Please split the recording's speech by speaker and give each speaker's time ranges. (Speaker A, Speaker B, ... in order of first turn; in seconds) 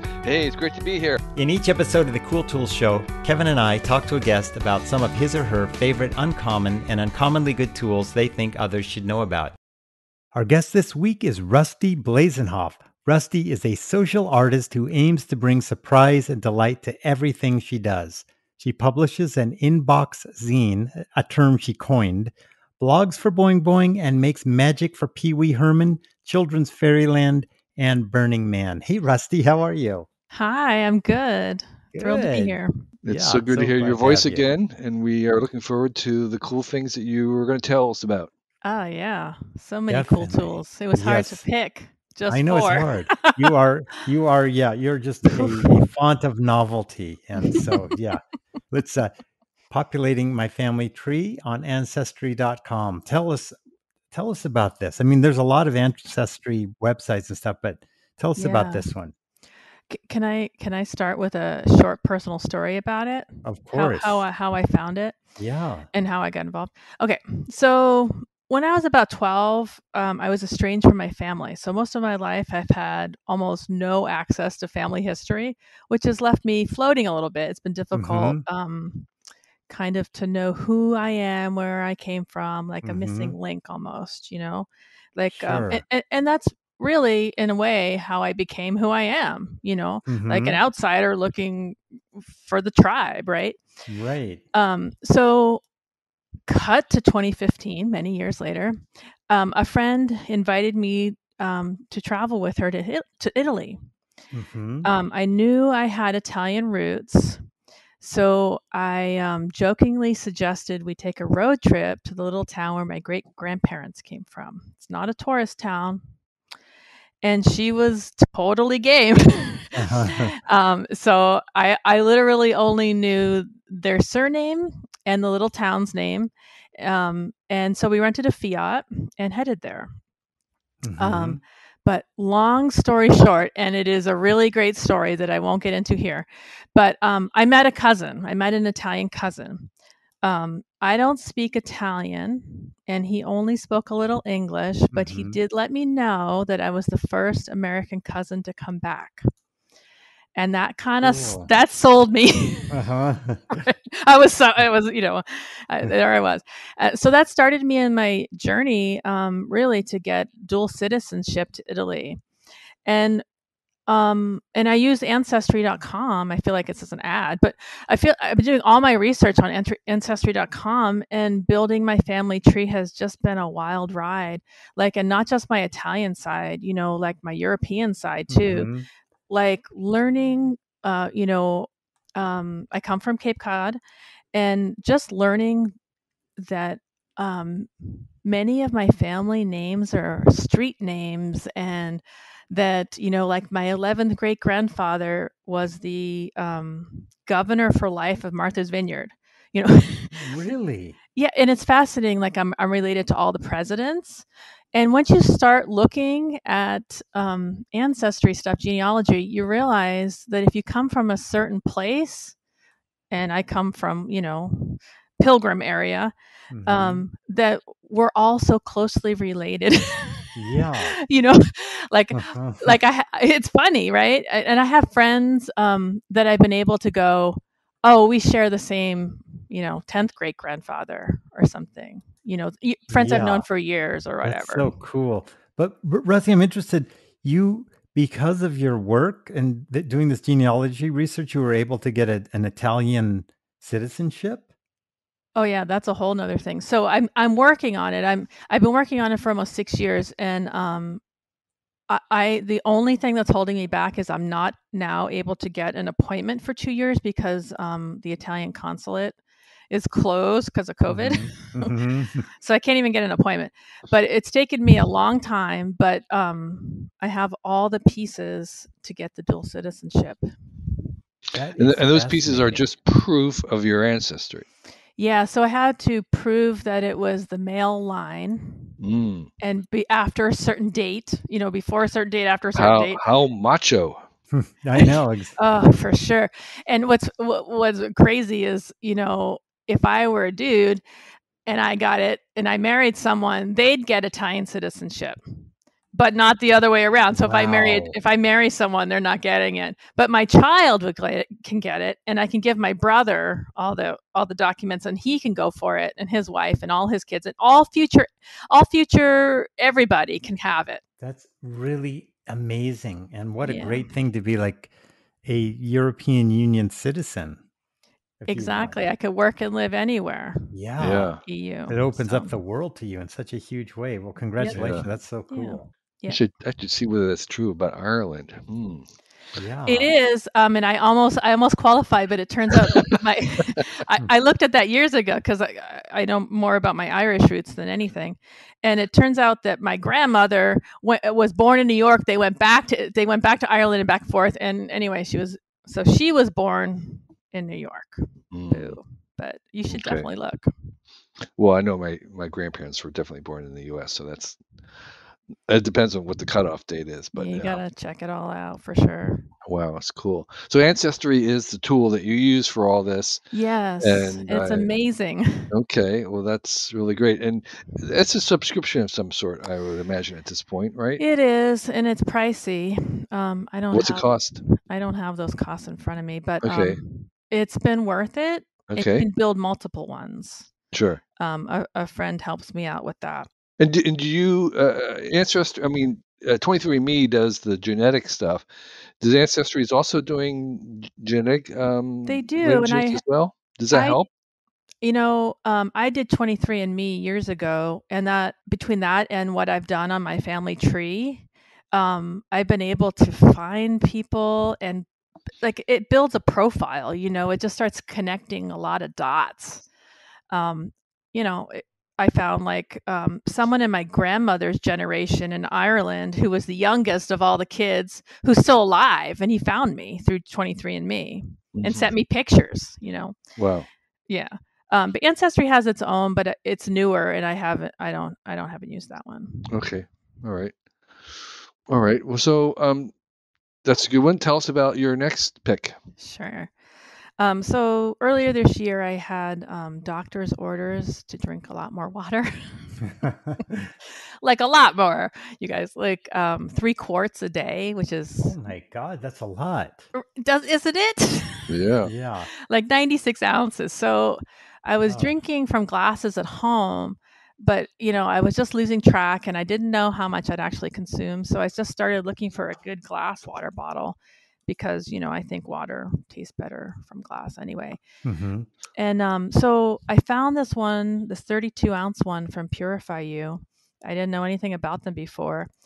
Speaker A: 0.2-1.2, 33.0-38.3, 271.6-274.5, 278.8-279.3, 282.5-284.0, 320.8-321.2, 324.5-324.8, 326.1-328.9, 348.3-348.8, 349.7-350.1, 351.4-354.4, 355.5-357.6, 359.4-363.2, 363.8-364.7, 365.5-371.0, 373.7-374.4, 376.4-376.8, 378.7-379.1, 380.7-381.0, 383.6-388.4, 389.0-394.1, 421.5-421.9, 423.4-423.7, 429.5-430.5, 431.7-432.9, 433.6-435.8, 451.5-451.9
Speaker B: 1.3-9.6, 10.3-30.1, 31.9-32.6, 33.1-34.5, 39.9-41.4, 42.3-49.1, 49.7-53.6, 54.1-59.1, 63.4-64.2, 65.4-65.9, 77.9-78.4, 82.8-83.3, 85.3-85.8, 90.1-90.6, 93.9-94.4, 104.3-104.9, 119.8-120.3, 130.8-131.4, 144.9-145.4, 151.0-151.5, 152.7-153.5, 178.3-178.9, 200.1-200.9, 216.5-217.0, 220.3-221.0, 222.1-222.8, 232.9-233.4, 234.2-244.4, 260.9-262.2, 271.3-272.6, 284.3-285.3, 297.1-298.0, 311.0-314.7, 315.2-317.4, 318.2-318.8, 320.5-321.1, 321.7-325.7, 329.4-329.9, 443.0-443.7, 448.2-449.8, 451.8-452.3, 454.8-455.1, 468.0-468.5
Speaker C: 30.3-32.7, 38.6-43.4, 45.3-45.8, 47.4-47.8, 58.4-58.9, 59.9-65.2, 65.9-79.1, 79.7-93.6, 94.5-95.6, 96.5-103.8, 104.8-107.4, 108.0-116.0, 117.2-129.9, 131.0-139.7, 140.2-149.2, 150.3-152.8, 153.5-162.2, 162.8-163.2, 163.9-178.7, 179.3-183.8, 184.3-185.7, 186.4-200.3, 201.2-212.3, 213.1-216.1, 216.7-234.7, 245.3-251.0, 251.9-259.2, 259.7-261.7, 262.4-270.3, 275.0-278.7, 279.4-283.0, 284.8-290.8, 291.4-310.8, 313.4-313.9, 318.3-320.5, 321.2-322.4, 324.4-324.7, 325.3-326.2, 329.7-350.5, 357.1-359.3, 363.3-365.5, 371.0-380.5, 381.2-383.3, 392.1-393.0, 393.7-394.0, 394.8-404.9, 405.4-409.6, 410.3-423.2, 424.1-429.5, 436.0-436.5, 437.2-442.8, 444.2-448.3, 449.9-451.5, 452.5-467.8, 468.8-475.5